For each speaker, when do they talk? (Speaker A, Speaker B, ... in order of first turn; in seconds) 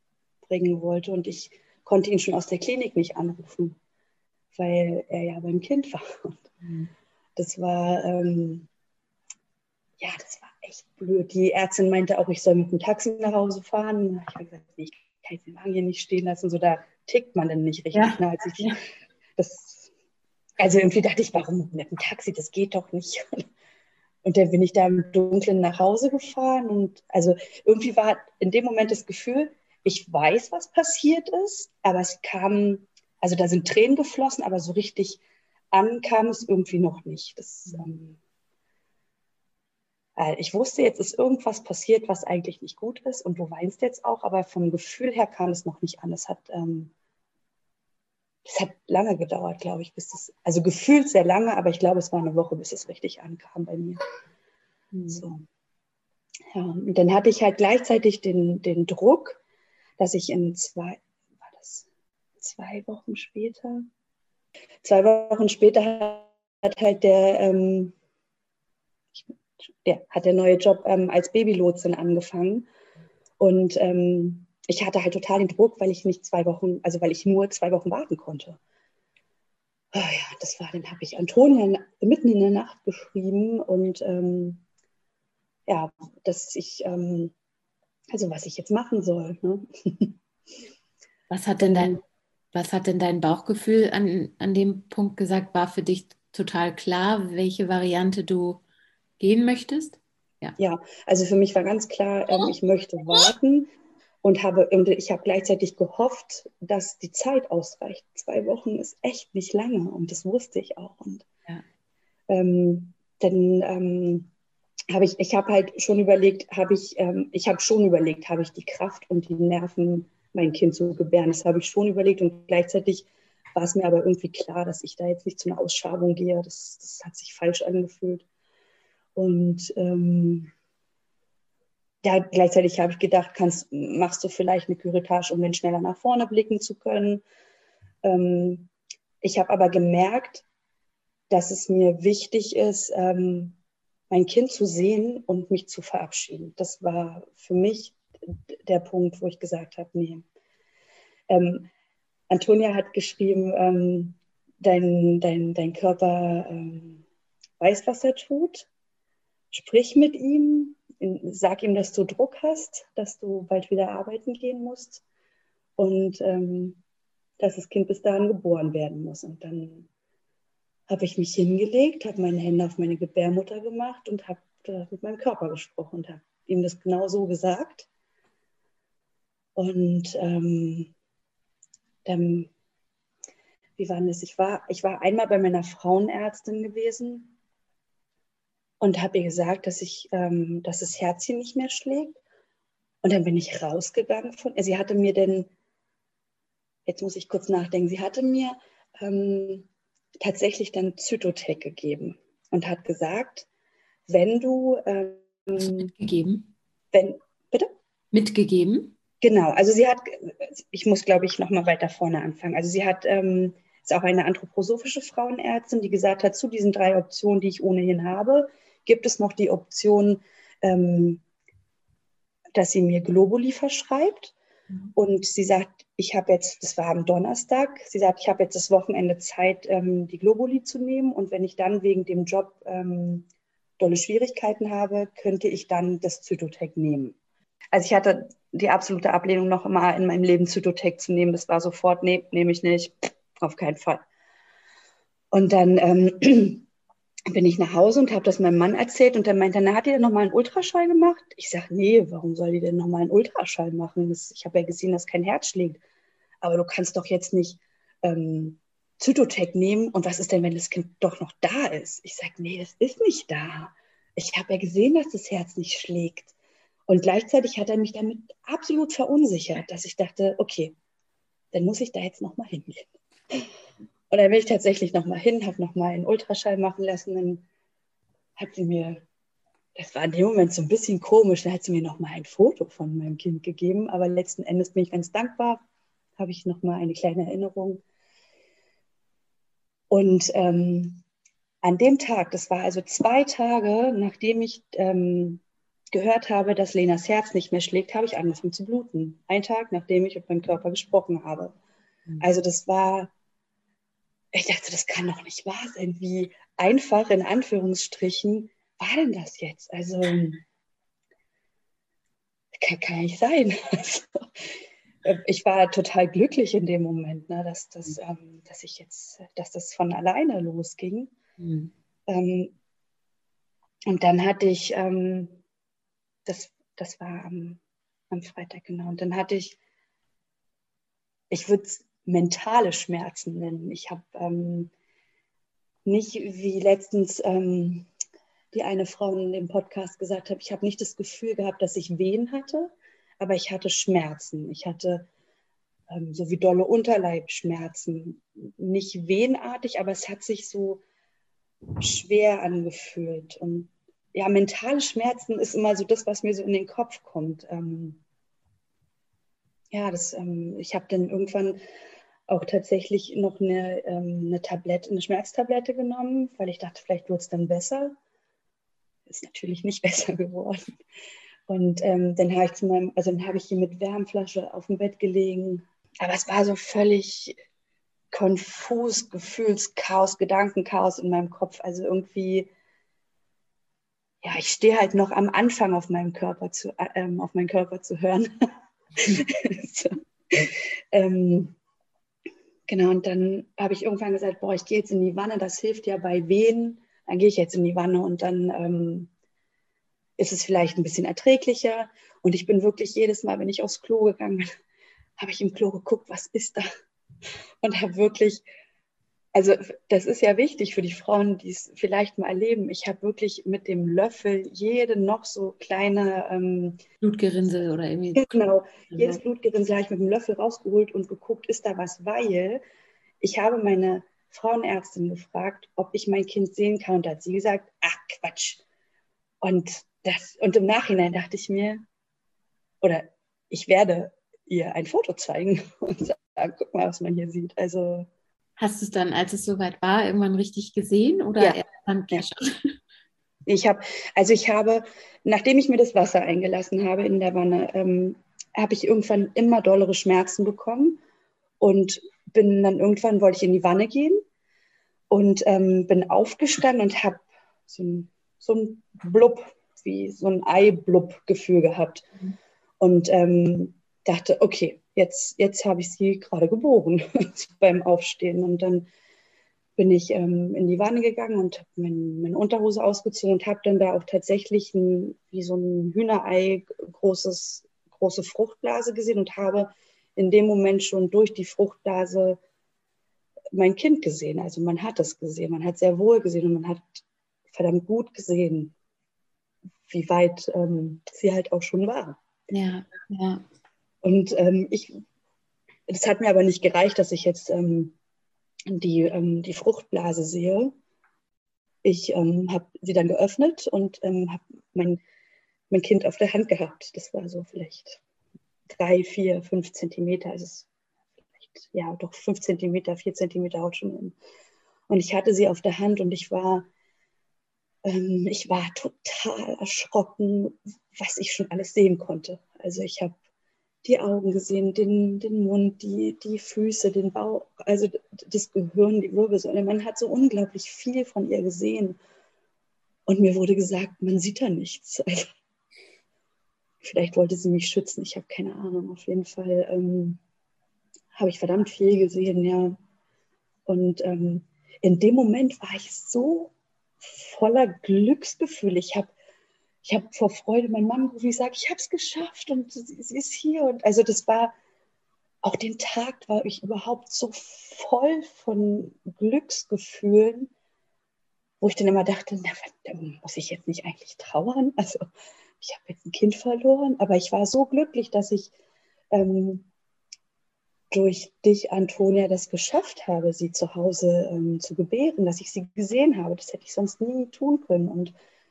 Speaker A: 0.4-3.8, 4.5-6.5, 7.3-8.7, 10.0-18.7, 19.4-19.9, 20.6-23.4, 24.2-35.2, 35.7-38.2, 40.1-46.9, 48.4-54.0, 55.1-55.4, 56.5-59.4, 60.0-61.9, 62.4-63.9, 64.8-67.9, 69.8-72.7, 73.4-78.6, 79.9-84.6, 85.7-87.3, 88.1-90.2, 100.6-103.7, 104.2-111.2, 112.3-114.3, 114.9-128.2, 129.1-130.5, 132.0-137.2, 138.0-138.7, 139.2-140.4, 141.3-143.6, 144.1-150.2, 151.3-151.7, 152.3-157.0, 157.6-158.7, 159.5-165.0, 165.8-166.8, 167.4-169.9, 170.9-177.9, 179.6-180.9, 182.0-182.5, 183.8-187.3, 188.8-192.2, 193.0-195.5, 196.8-199.7, 200.2-203.5, 204.1-205.9, 206.9-207.7, 209.2-221.2, 222.5-224.3, 224.9-233.3, 233.8-237.1, 237.7-244.0, 245.3-246.6, 247.3-255.8, 256.4-266.3, 266.9-270.7, 271.5-273.5, 274.1-277.4, 278.4-279.0, 279.8-285.6, 286.2-287.8, 289.9-291.0, 291.6-301.6, 302.2-303.1, 304.3-310.4, 312.5-314.5, 315.0-321.1, 322.1-322.5, 323.9-325.4, 326.2-327.6, 328.1-329.6, 331.3-334.7, 335.8-337.9, 338.5-345.1, 345.9-350.8, 351.8-358.0, 359.7-361.6, 362.3-367.9, 369.1-370.7, 371.5-377.4, 378.1-382.5, 384.2-388.3, 388.9-391.5, 392.7-399.1, 400.2-404.5, 405.2-406.6, 407.6-408.4, 409.3-416.8, 418.1-422.6, 423.2-428.6, 429.4-431.8, 432.8-438.1, 441.4-442.3, 443.4-451.0, 451.6-454.2, 455.1-462.1, 462.8-468.9, 469.8-482.4, 483.5-488.7, 489.9-492.2, 494.0-495.0, 495.9-497.9, 498.7-500.7, 501.8-505.0, 505.7-508.0, 508.7-510.7, 511.3-514.1, 514.9-516.6, 517.8-523.1, 523.8-532.0, 533.1-535.3, 536.8-540.2, 541.1-542.8, 543.6-549.1, 549.8-554.5, 555.4-560.5, 561.6-565.0, 565.6-568.5, 569.1-569.6, 570.9-578.1
Speaker B: 6.6-6.9, 17.9-18.7, 54.9-55.2, 91.3-92.0, 92.5-98.6, 99.2-100.5, 205.6-206.5, 208.1-208.9, 321.4-321.7, 417.0-418.3, 418.9-419.2, 438.6-442.7, 492.5-493.4